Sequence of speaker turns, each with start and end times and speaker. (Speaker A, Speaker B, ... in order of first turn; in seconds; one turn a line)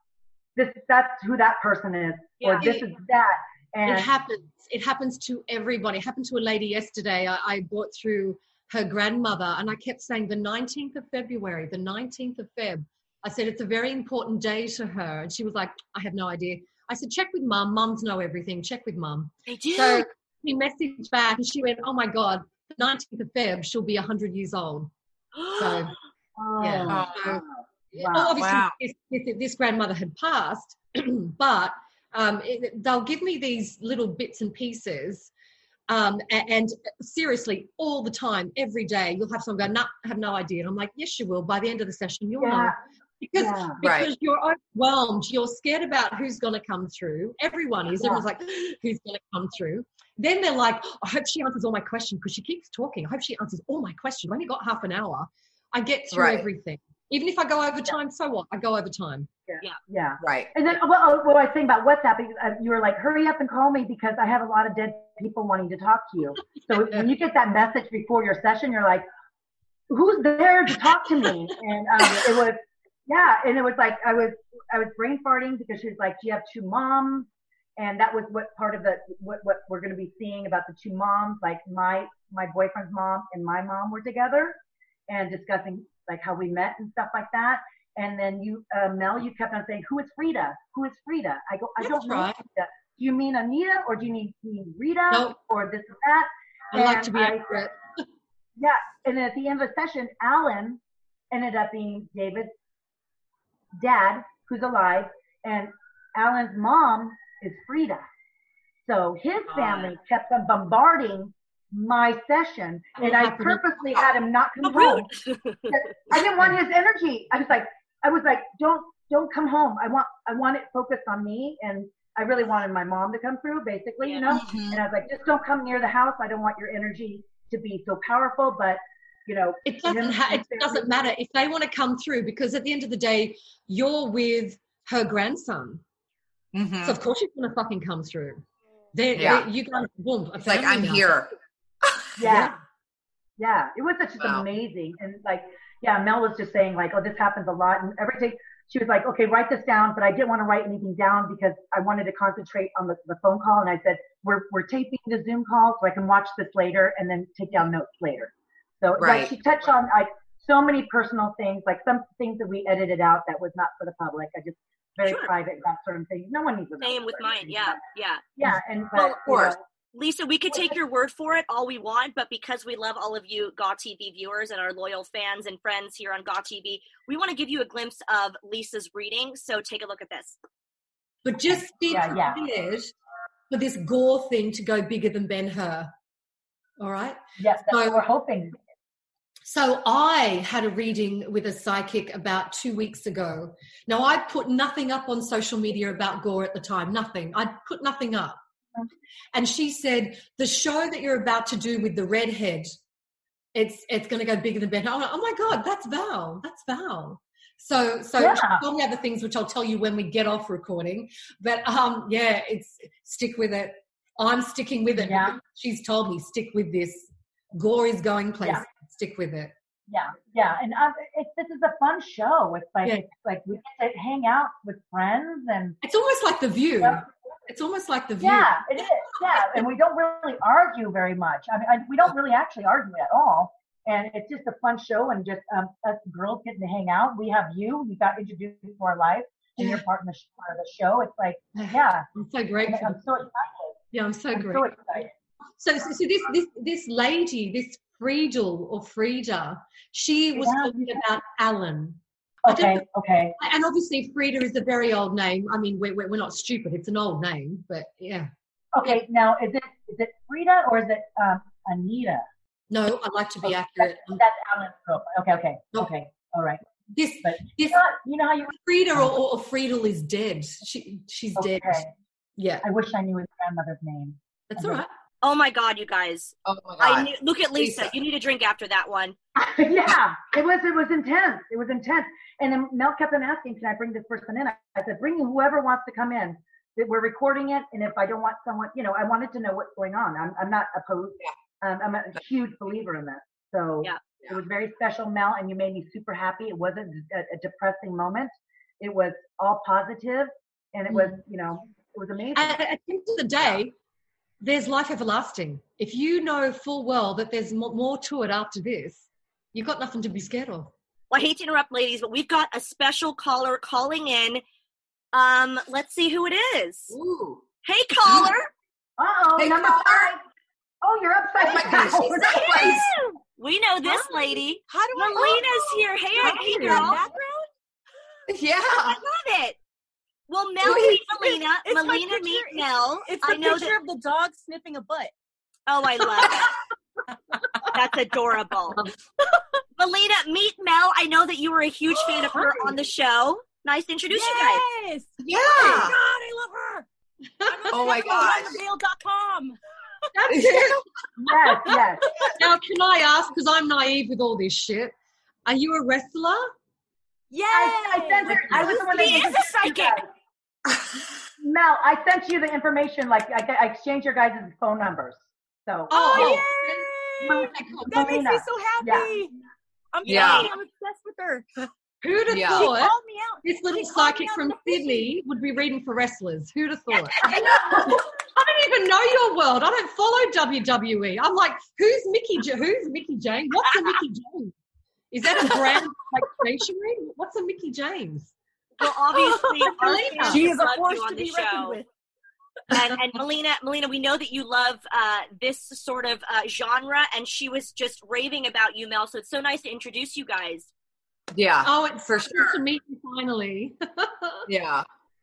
Speaker A: 0.6-4.1
Speaker B: 2.4-2.7
Speaker C: 2.6-2.8
Speaker C: 3.9-24.9
Speaker B: 19.5-20.1
Speaker B: 25.4-25.9
Speaker C: 25.5-25.9
Speaker A: 26.4-28.3
Speaker C: 26.6-35.3
Speaker D: 26.9-27.4
Speaker D: 28.4-28.7
Speaker C: 35.9-59.3
Speaker A: 42.4-42.7
Speaker A: 43.4-43.8
Speaker D: 43.8-44.1
Speaker A: 48.0-48.2
Speaker D: 56.1-56.5
Speaker A: 59.5-69.0
Speaker D: 60.2-60.5
Speaker C: 66.7-67.1
Speaker A: 69.9-97.5
Speaker C: 91.8-92.4
Speaker C: 95.1-95.4
Speaker C: 96.7-98.0
Speaker A: 98.6-100.8
Speaker A: 101.3-102.5
Speaker A: 103.8-108.0
Speaker A: 108.8-115.1
Speaker B: 109.6-109.9
Speaker C: 113.0-113.7
Speaker B: 114.6-115.8
Speaker A: 115.7-130.9
Speaker B: 124.0-124.4
Speaker D: 124.3-124.8
Speaker C: 129.7-135.8
Speaker D: 136.5-137.0
Speaker C: 136.8-138.4
Speaker C: 138.9-141.1
Speaker D: 139.1-139.5
Speaker D: 140.4-141.3
Speaker A: 142.2-142.6
Speaker C: 142.2-142.5
Speaker A: 143.4-167.8
Speaker D: 144.2-144.5
Speaker D: 159.0-159.3
Speaker B: 165.0-165.3
Speaker B: 166.8-168.2
Speaker A: 168.4-169.6
Speaker B: 168.9-169.2
Speaker D: 169.2-169.6
Speaker B: 169.9-180.4
Speaker A: 170.5-170.8
Speaker C: 181.2-182.9
Speaker A: 181.9-182.4
Speaker C: 183.5-185.9
Speaker C: 186.8-188.0
Speaker A: 187.4-188.6
Speaker C: 189.4-198.4
Speaker C: 199.3-202.8
Speaker C: 203.5-219.5
Speaker A: 208.2-208.6
Speaker A: 215.0-215.4
Speaker A: 219.9-225.8
Speaker C: 225.8-228.6
Speaker A: 226.8-227.1
Speaker A: 228.2-242.1
Speaker C: 239.6-239.8
Speaker C: 241.5-243.0
Speaker A: 242.7-243.8
Speaker C: 243.9-244.7
Speaker A: 244.3-245.1
Speaker C: 245.6-252.8
Speaker A: 250.3-251.0
Speaker A: 252.4-253.3
Speaker C: 253.4-258.3
Speaker A: 258.7-262.2
Speaker C: 262.7-264.2
Speaker A: 263.4-266.6
Speaker C: 266.9-267.8
Speaker A: 267.2-269.1
Speaker C: 268.5-271.9
Speaker A: 271.4-271.9
Speaker C: 272.4-272.6
Speaker A: 272.6-274.8
Speaker C: 274.5-274.9
Speaker B: 275.2-279.1
Speaker D: 276.4-277.9
Speaker A: 279.4-302.6
Speaker C: 300.9-301.2
Speaker C: 302.3-303.7
Speaker C: 304.4-310.7
Speaker B: 311.1-314.4
Speaker B: 315.1-316.9
Speaker D: 316.9-317.4
Speaker B: 317.6-318.5
Speaker D: 318.0-318.3
Speaker A: 319.0-320.2
Speaker D: 319.4-320.1
Speaker A: 320.8-322.8
Speaker D: 321.4-322.9
Speaker B: 322.3-327.1
Speaker E: 322.5-323.0
Speaker E: 323.9-327.5
Speaker C: 326.4-326.9
Speaker D: 328.3-329.0
Speaker B: 328.9-329.6
Speaker B: 330.3-333.7
Speaker E: 330.6-335.1
Speaker B: 335.7-336.5
Speaker B: 337.7-338.8
Speaker B: 339.8-344.6
Speaker C: 342.3-342.7
Speaker E: 344.1-346.9
Speaker D: 345.2-346.0
Speaker E: 347.4-349.6
Speaker D: 347.7-348.6
Speaker C: 350.1-351.7
Speaker D: 350.3-350.7
Speaker A: 351.2-352.1
Speaker E: 352.1-352.4
Speaker C: 352.3-354.9
Speaker C: 355.4-356.5
Speaker E: 357.3-359.6
Speaker A: 357.5-360.1
Speaker B: 358.5-360.0
Speaker A: 361.4-366.4
Speaker C: 365.9-368.1
Speaker E: 365.9-369.3
Speaker A: 367.2-369.1
Speaker E: 369.9-371.7
Speaker B: 370.0-370.5
Speaker D: 370.1-370.5
Speaker C: 372.0-384.5
Speaker D: 372.3-372.7
Speaker E: 372.5-375.1
Speaker E: 377.2-377.6
Speaker A: 377.2-378.0
Speaker C: 385.1-388.3
Speaker B: 388.8-391.8
Speaker E: 389.1-391.9
Speaker C: 389.6-390.5
Speaker B: 392.7-400.7
Speaker D: 401.3-402.6
Speaker C: 401.6-404.5
Speaker D: 404.5-404.8